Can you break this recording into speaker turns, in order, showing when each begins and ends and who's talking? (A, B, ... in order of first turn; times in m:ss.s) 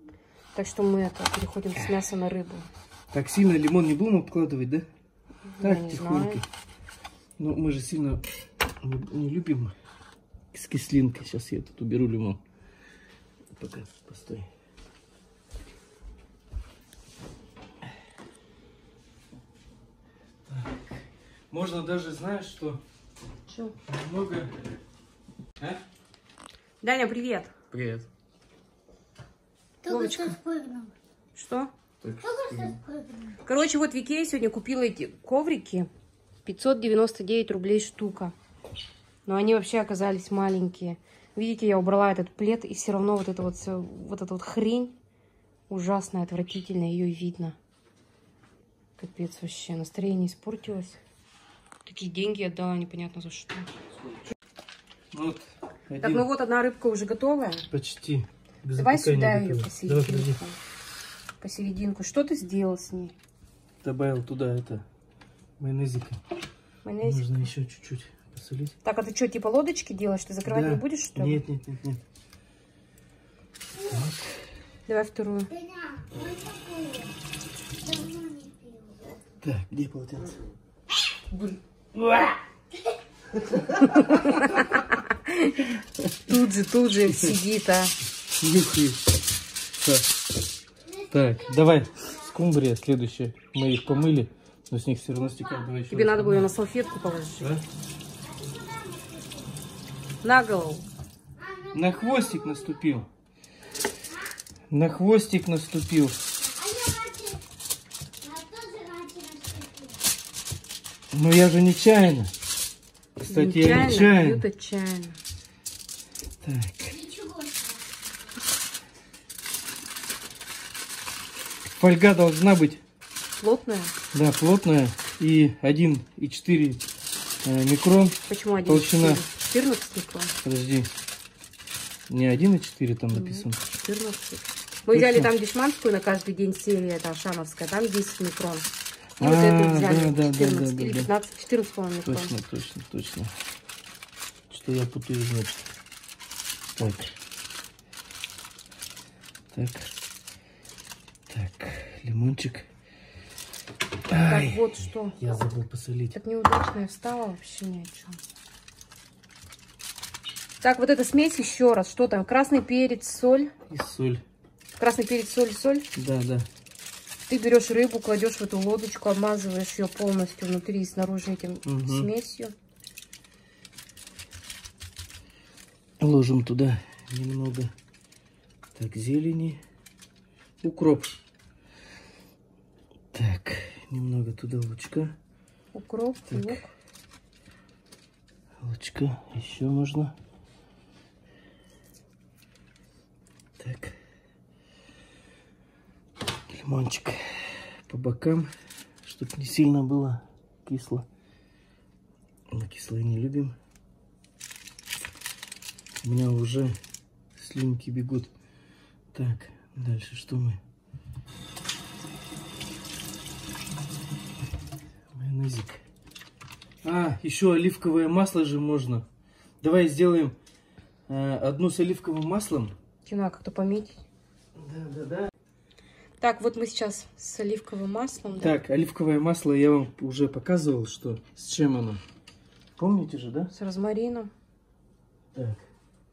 0:00.5-0:02.7 A
0:03.1-0:04.8 B
0:05.5-0:06.4 A
0:05.6-0:06.4 B
0:07.4-0:08.2 B
0:08.8-0:09.7 B
0:10.5-0:12.4 B
0:13.6-0:14.5 B
0:20.5-0:22.8 B
0:23.5-0:23.8 A
0:23.9-0:24.5 B
0:26.8-0:27.5 A
0:27.7-0:28.1 B
0:29.8-0:30.9 C
0:29.9-0:30.4 A
0:31.3-0:31.7 A
0:32.0-0:32.8 B
0:32.2-0:33.4 C
0:33.4-0:35.9 A
0:36.4-0:38.3 A
0:39.2-0:45.0 A
0:45.7-0:47.6 A
0:49.0-0:51.0 A
0:51.8-0:53.7 A
0:55.1-0:56.2 B
0:56.0-0:57.7 A
0:57.7-1:00.4 B
0:58.7-1:00.6 A
1:01.4-1:03.1 A
1:03.8-1:04.8 B
1:05.6-1:06.2 B
1:06.8-1:07.5 A
1:07.0-1:08.7 B
1:08.8-1:11.4 A
1:10.4-1:12.0 B
1:13.8-1:14.5 B
1:14.9-1:15.5 A
1:15.5-1:17.1 C
1:17.8-1:19.2 C
1:19.4-1:20.4 B
1:22.0-1:22.3 B
1:23.7-1:25.6 A
1:23.8-1:24.3 B
1:26.2-1:27.9 A
1:28.3-1:29.0 B
1:29.8-1:30.1 B
1:30.9-1:32.3 C
1:31.1-1:36.5 B
1:35.9-1:37.5 A
1:37.4-1:37.6 B
1:38.2-1:39.5 C
1:40.2-1:40.8 A
1:41.4-1:42.8 C
1:41.7-1:43.1 B
1:44.7-1:46.2 B
1:46.4-1:47.4 C
1:48.2-1:50.0 C
1:51.1-1:52.3 B
1:53.2-1:54.4 B
1:53.2-1:55.2 A
1:56.4-1:57.0 B
1:56.9-1:58.0 C
2:01.6-2:02.8 B
2:03.4-2:03.9 A
2:04.1-2:06.8 B
2:07.4-2:09.2 B
2:08.3-2:10.3 A
2:10.4-2:10.9 B
2:12.1-2:13.6 B
2:13.1-2:22.3 A
2:14.9-2:15.3 B
2:19.2-2:21.1 B
2:22.0-2:23.3 B
2:24.5-2:25.7 B
2:26.8-2:27.1 B
2:29.5-2:29.9 B
2:31.3-2:32.7 B
2:34.1-2:36.2 B
2:34.2-2:35.3 A
2:36.1-2:38.2 A
2:40.6-2:43.5 A
2:43.7-2:44.2 B
2:44.8-2:45.9 A
2:45.9-2:46.5 B
2:47.3-2:52.5 A
2:51.6-2:52.1 B
2:56.0-2:57.7 B
2:58.7-2:59.6 B
3:00.6-3:01.2 B
3:03.1-3:05.1 B
3:05.7-3:06.7 A
3:06.3-3:06.6 B
3:08.6-3:10.1 B
3:13.6-3:14.0 B
3:16.5-3:18.5 B
3:19.0-3:21.0 B
3:22.5-3:23.5 B
3:26.0-3:26.8 B
3:27.4-3:28.3 B
3:29.1-3:30.6 B
3:35.1-3:35.8 B
3:36.8-3:39.0 B
3:39.6-3:40.4 B
3:41.1-3:42.7 B
3:43.0-3:44.0 A
3:44.6-3:45.3 B
3:46.2-3:48.6 A
3:48.4-3:52.0 B
3:52.8-3:53.5 B
3:53.5-3:54.3 A
3:55.3-3:55.6 B